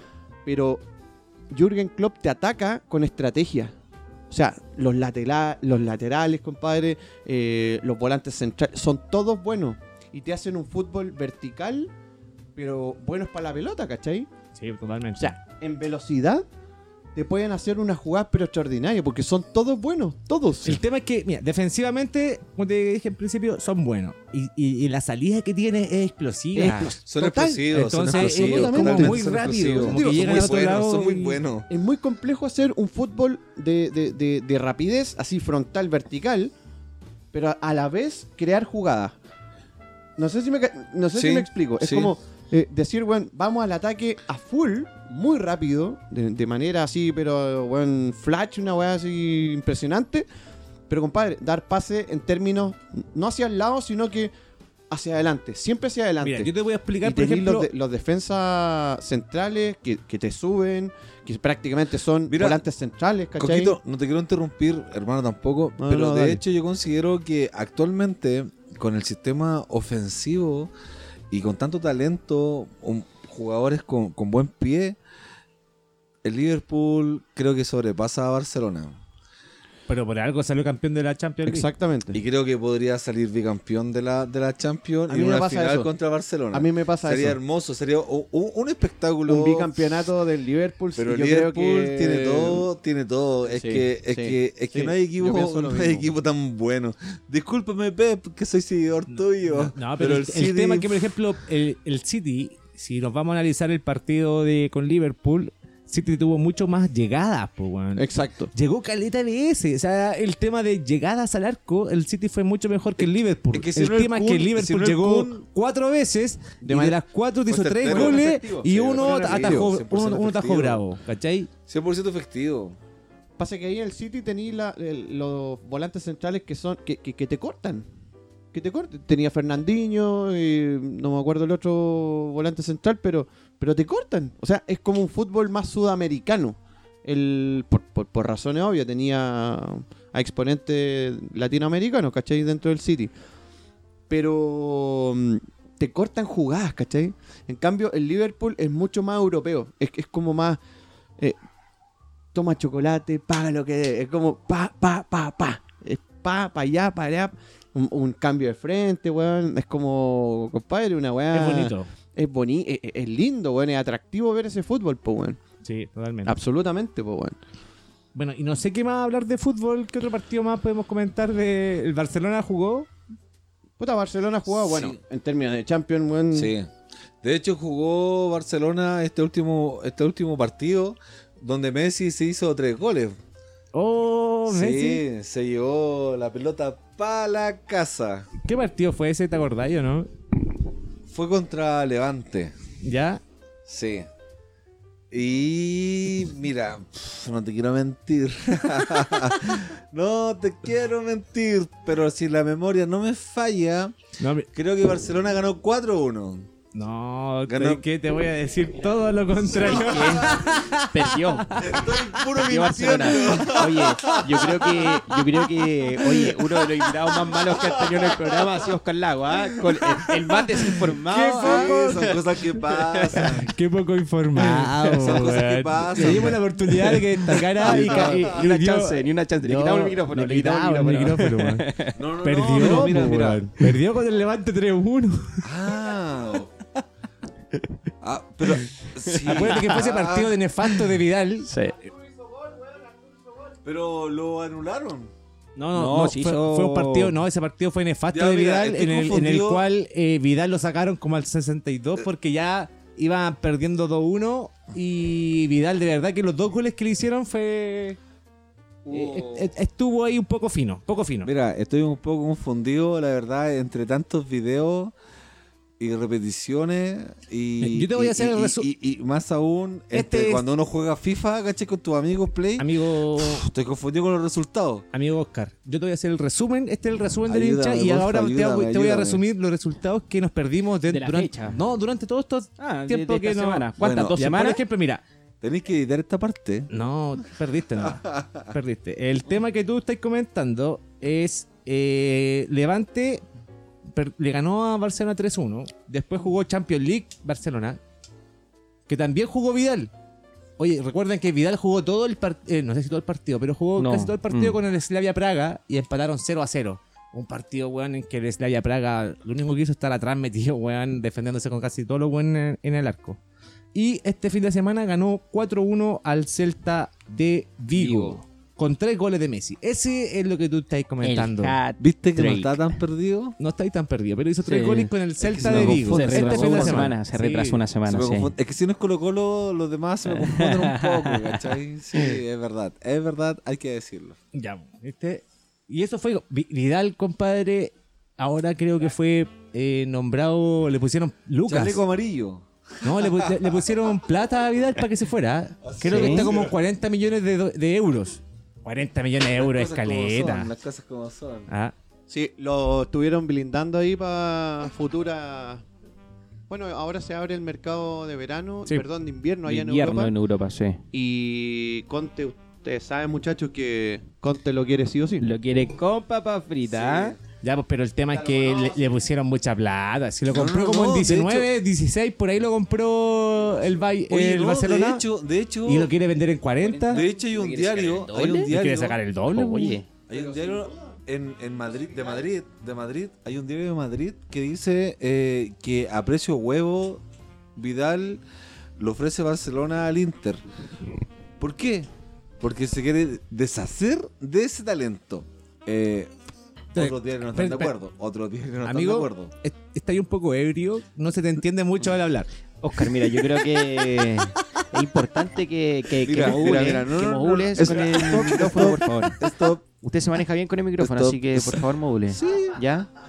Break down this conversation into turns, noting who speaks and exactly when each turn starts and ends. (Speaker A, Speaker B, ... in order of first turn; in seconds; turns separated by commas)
Speaker A: 0.4-0.8, Speaker A: 1.5-3.7, Speaker A: 4.3-11.9, Speaker A: 12.6-14.3, Speaker B: 14.6-15.3, Speaker A: 15.2-16.4, Speaker A: 17.1-20.8, Speaker B: 20.6-26.9, Speaker A: 26.5-30.8, Speaker C: 27.1-31.7, Speaker B: 27.7-31.4, Speaker A: 31.7-36.5, Speaker A: 37.3-39.1, Speaker A: 40.2-50.2, Speaker C: 41.1-42.1, Speaker A: 50.9-54.3, Speaker A: 54.9-63.8, Speaker B: 56.2-57.7, Speaker C: 62.3-62.6, Speaker C: 63.4-70.7, Speaker A: 65.8-66.4, Speaker C: 71.3-75.0, Speaker C: 76.2-79.0, Speaker B: 79.9-81.7, Speaker A: 81.5-82.2, Speaker C: 82.1-89.7, Speaker A: 85.1-85.9, Speaker A: 86.5-87.4, Speaker A: 89.2-92.7, Speaker C: 91.0-101.0, Speaker A: 93.5-96.1, Speaker B: 99.1-121.5, Speaker A: 108.0-108.5, Speaker C: 113.0-115.4, Speaker A: 116.6-117.0, Speaker C: 117.5-120.8, Speaker A: 117.8-119.7, Speaker C: 121.7-122.8, Speaker A: 123.4-127.8, Speaker A: 128.5-143.1, Speaker A: 144.1-150.6, Speaker A: 152.3-165.4, Speaker B: 161.3-161.9, Speaker B: 165.6-166.3, Speaker A: 166.2-167.4, Speaker B: 168.1-172.9, Speaker A: 173.8-176.5, Speaker C: 174.5-175.0, Speaker C: 176.3-176.7, Speaker C: 177.2-183.2, Speaker B: 183.7-185.0, Speaker C: 184.5-188.3, Speaker B: 188.4-190.1, Speaker C: 191.1-192.5, Speaker B: 192.8-193.2, Speaker C: 193.7-194.1, Speaker C: 195.1-203.9, Speaker B: 204.2-204.5, Speaker C: 204.5-206.5, Speaker B: 206.7-211.9, Speaker C: 207.5-207.8, Speaker D: 209.3-223.4, Speaker C: 209.5-210.6, Speaker C: 211.5-218.6, Speaker C: 219.4-223.5, Speaker B: 221.3-222.0, Speaker B: 223.4-231.7, Speaker C: 224.8-226.4, Speaker D: 225.9-232.0, Speaker C: 227.6-228.4, Speaker C: 231.9-233.4, Speaker B: 232.2-235.4, Speaker D: 232.6-232.9, Speaker C: 235.4-236.5, Speaker C: 238.0-240.3, Speaker D: 238.4-239.7, Speaker B: 239.2-241.5, Speaker D: 241.5-241.8, Speaker C: 243.6-245.1, Speaker B: 245.6-258.0, Speaker D: 245.7-247.1, Speaker C: 248.1-249.6, Speaker C: 258.9-259.5, Speaker B: 258.9-261.3, Speaker C: 261.2-264.9, Speaker C: 265.8-274.9, Speaker B: 267.6-268.7, Speaker B: 269.9-270.4, Speaker B: 272.6-273.5, Speaker B: 274.9-285.0, Speaker C: 277.3-279.2, Speaker D: 280.9-281.6, Speaker D: 282.6-284.6, Speaker C: 283.8-284.2, Speaker C: 285.4-286.7, Speaker B: 286.7-293.2, Speaker C: 287.8-288.5, Speaker B: 293.9-297.8, Speaker B: 298.9-299.9, Speaker B: 300.6-313.2, Speaker D: 303.8-304.6, Speaker B: 313.7-321.6, Speaker D: 317.7-318.2, Speaker D: 321.0-322.8, Speaker C: 321.8-323.3, Speaker B: 323.4-327.6, Speaker D: 324.4-328.3, Speaker C: 325.2-326.9, Speaker C: 327.9-334.2, Speaker D: 330.0-332.2, Speaker B: 334.3-341.8, Speaker C: 341.4-343.9, Speaker B: 342.8-350.5, Speaker C: 345.6-346.5, Speaker D: 345.9-346.3, Speaker C: 349.3-351.5, Speaker B: 351.5-351.7, Speaker A: 352.1-355.6, Speaker A: 356.5-360.1, Speaker D: 359.4-360.8, Speaker A: 360.9-365.3, Speaker D: 365.2-367.2, Speaker C: 366.7-367.2, Speaker B: 367.4-375.1, Speaker A: 368.1-368.7, Speaker C: 370.3-371.5, Speaker C: 374.1-375.9, Speaker B: 375.6-377.0, Speaker D: 376.6-378.5, Speaker C: 376.9-379.0, Speaker B: 378.4-379.8, Speaker D: 379.3-379.9, Speaker C: 380.1-387.0, Speaker A: 380.1-380.7, Speaker C: 387.6-388.2, Speaker C: 388.8-390.4, Speaker C: 391.4-391.9, Speaker C: 392.4-396.1, Speaker C: 396.7-399.3, Speaker B: 396.7-397.7, Speaker B: 398.6-402.3, Speaker D: 402.6-409.3, Speaker B: 403.8-404.2, Speaker C: 406.0-409.6, Speaker A: 406.3-407.8, Speaker D: 409.8-412.9, Speaker C: 410.8-412.6